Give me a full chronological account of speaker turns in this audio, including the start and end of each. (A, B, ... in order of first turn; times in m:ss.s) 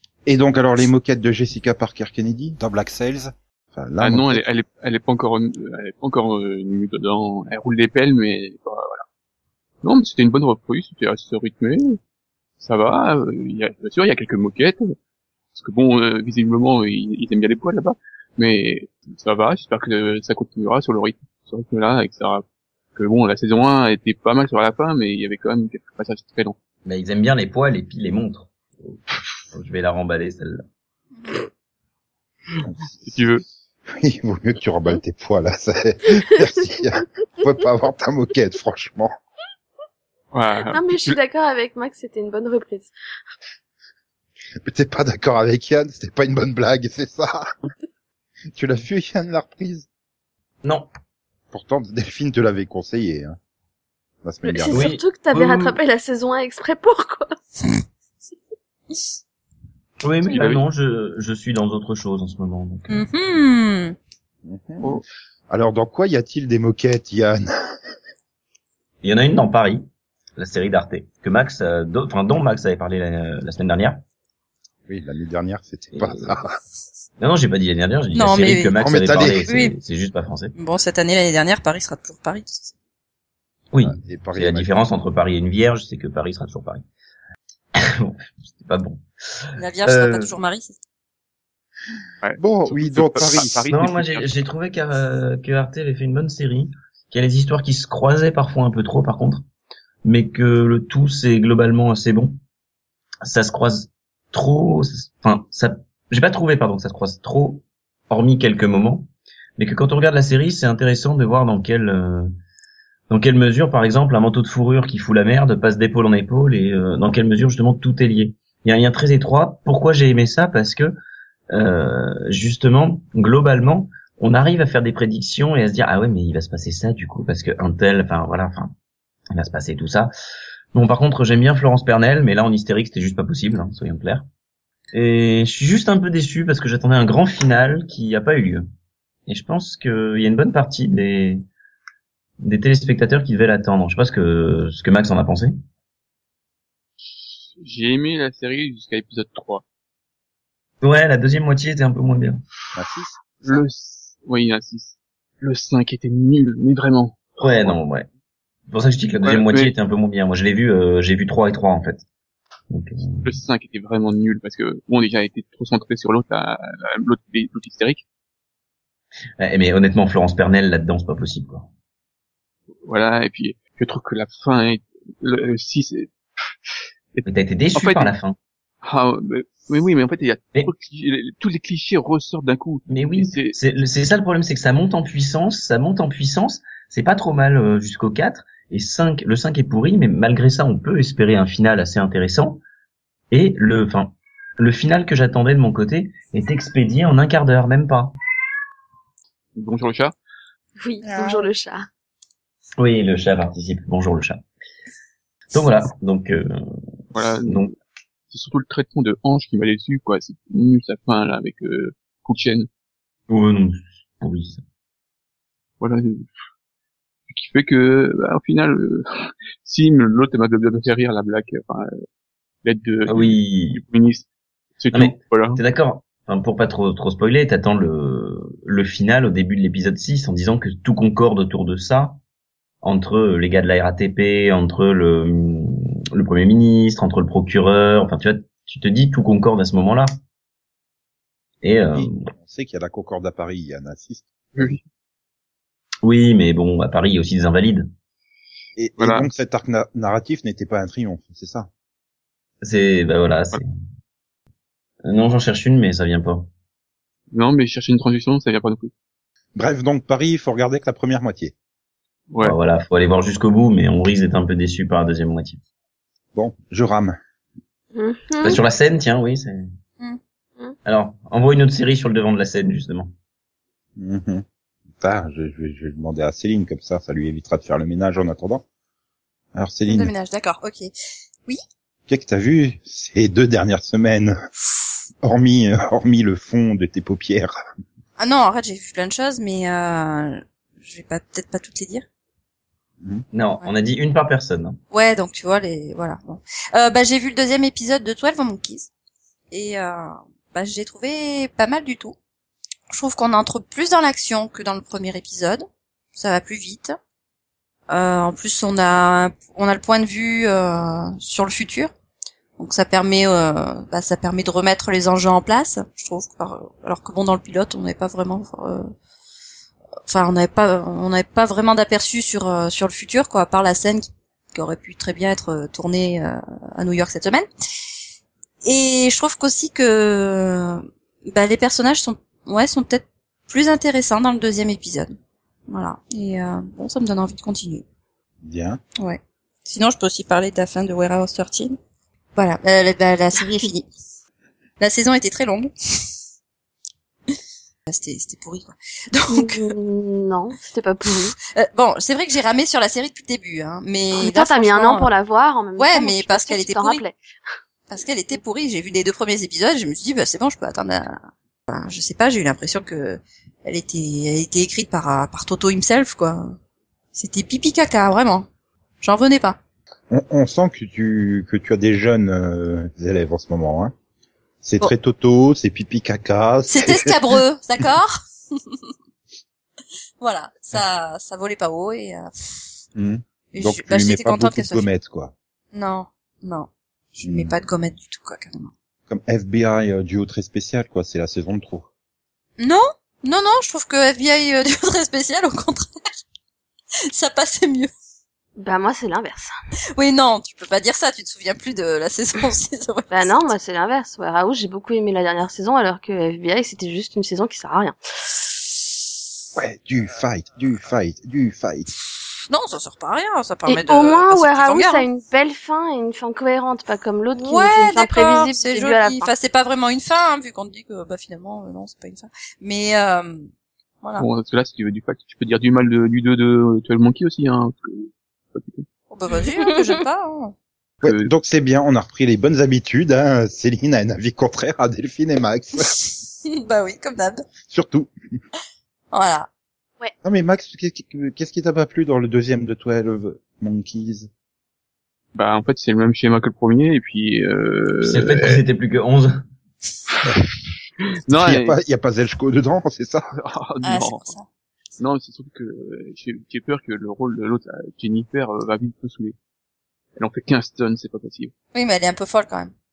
0:00.3-0:04.4 A
0:04.0-0:09.0 B
0:09.8-0:12.0 B
0:12.6-0:15.0 B
0:15.5-0:22.4 B
0:23.0-0:26.6 B
0:26.8-0:30.6 C
0:32.5-0:33.4 B
0:32.6-0:33.2 A
0:33.9-0:39.1 A
0:40.3-0:41.2 B
0:40.7-0:42.9 D
0:44.6-0:47.5 A
0:48.5-0:49.9 A
0:50.6-0:50.9 C
0:51.5-0:53.4 A
0:54.2-0:54.9 A
0:54.4-0:57.4 D
0:54.7-0:55.8 C
1:00.0-1:03.1 C
1:00.3-1:00.6 B
1:02.9-1:04.0 E
1:04.4-1:07.5 A
1:09.0-1:14.0 C
1:14.9-1:16.6 A
1:16.0-1:16.4 C
1:17.2-1:20.6 C
1:18.2-1:18.8 E
1:18.8-1:19.4 A
1:19.3-1:19.8 E
1:20.6-1:22.7 E
1:23.7-1:26.8 C
1:23.8-1:24.7 A
1:27.8-1:30.3 C
1:29.6-1:30.8 E
1:32.2-1:34.3 B
1:32.4-1:33.6 A
1:33.7-1:39.4 C
1:40.0-1:42.4 C
1:43.2-1:52.3 C
1:53.1-2:01.0 C
2:01.5-2:08.7 C
2:09.3-2:10.1 C
2:10.7-2:14.3 C
2:14.9-2:18.6 C
2:19.3-2:21.4 C
2:22.4-2:25.5 C
2:27.0-2:29.6 B
2:30.8-2:32.4 C
2:32.8-2:33.6 A
2:33.4-2:37.8 B
2:37.4-2:38.1 C
2:38.7-2:42.0 C
2:39.2-2:39.7 B
2:42.7-2:43.4 C
2:43.2-2:48.0 B
2:49.4-2:51.7 C
2:52.8-2:56.1 B
2:57.1-2:58.2 B
2:57.2-2:58.4 C
2:58.8-3:03.6 B
3:02.9-3:12.6 C
3:13.3-3:18.2 C
3:19.6-3:20.2 B
3:20.8-3:21.8 D
3:21.0-3:21.5 A
3:22.8-3:24.4 C
3:25.5-3:26.8 C
3:27.2-3:27.8 B
3:27.4-3:27.7 C
3:28.3-3:32.7 B
3:33.3-3:34.6 C
3:35.8-3:36.3 B
3:37.3-3:41.9 B
3:42.6-3:44.3 B
3:43.1-3:43.8 C
3:44.8-3:45.6 B
3:44.9-3:52.2 C
3:52.8-4:00.1 C
4:01.6-4:02.3 C
4:02.0-4:04.3 A
4:06.0-4:07.9 C
4:08.8-4:11.7 A
4:09.0-4:09.3 B
4:12.6-4:13.7 C
4:15.0-4:16.5 C
4:17.3-4:18.9 B
4:19.6-4:21.5 A
4:22.3-4:22.6 B
4:22.4-4:25.6 C
4:26.4-4:27.2 A
4:27.9-4:28.6 D
4:28.4-4:29.7 C
4:30.8-4:33.1 C
4:34.0-4:34.4 A
4:35.0-4:38.6 A
4:39.5-4:40.1 A
4:39.9-4:40.9 E
4:42.1-4:44.4 A
4:45.2-4:47.6 A
4:48.2-4:52.0 E
4:53.3-4:54.8 C
4:54.9-4:58.9 E
4:59.5-5:02.2 E
5:02.9-5:07.0 E
5:07.9-5:11.9 E
5:12.6-5:18.9 E
5:20.1-5:27.5 E
5:28.6-5:35.2 E
5:35.7-5:37.8 E
5:38.4-5:38.8 A
5:39.0-5:41.8 E
5:42.4-5:43.9 E
5:44.8-5:45.7 E
5:47.9-5:49.7 E
5:49.3-5:51.4 D
5:51.4-5:55.1 E
5:54.1-5:57.2 D
5:55.8-5:57.0 E
5:57.9-6:06.6 E
6:07.1-6:08.5 E
6:09.0-6:09.6 E
6:10.1-6:13.9 A
6:14.6-6:17.4 A
6:16.7-6:18.9 E
6:20.2-6:22.3 E
6:23.0-6:25.3 A
6:23.5-6:24.9 E
6:25.7-6:28.7 E
6:27.2-6:27.6 A
6:29.1-6:31.9 A
6:32.6-6:36.0 E
6:37.1-6:37.9 E
6:38.6-6:39.5 D
6:40.0-6:43.5 E
6:43.1-6:48.4 D
6:49.6-6:51.9 A
6:52.2-6:55.1 E
6:53.7-6:59.3 D
6:57.4-7:03.5 E
7:04.2-7:08.9 B
7:09.1-7:10.5 E
7:09.6-7:09.9 D
7:11.0-7:11.3 B
7:11.0-7:16.0 A
7:15.9-7:17.5 E
7:17.7-7:18.1 A
7:19.1-7:19.5 E
7:20.2-7:24.3 A
7:25.3-7:28.6 B
7:28.0-7:29.4 C
7:30.1-7:30.4 B
7:31.1-7:31.8 B
7:31.3-7:33.3 A
7:33.3-7:34.3 B
7:33.8-7:34.5 E
7:35.0-7:39.4 B
7:40.2-7:41.5 B
7:41.7-7:42.7 E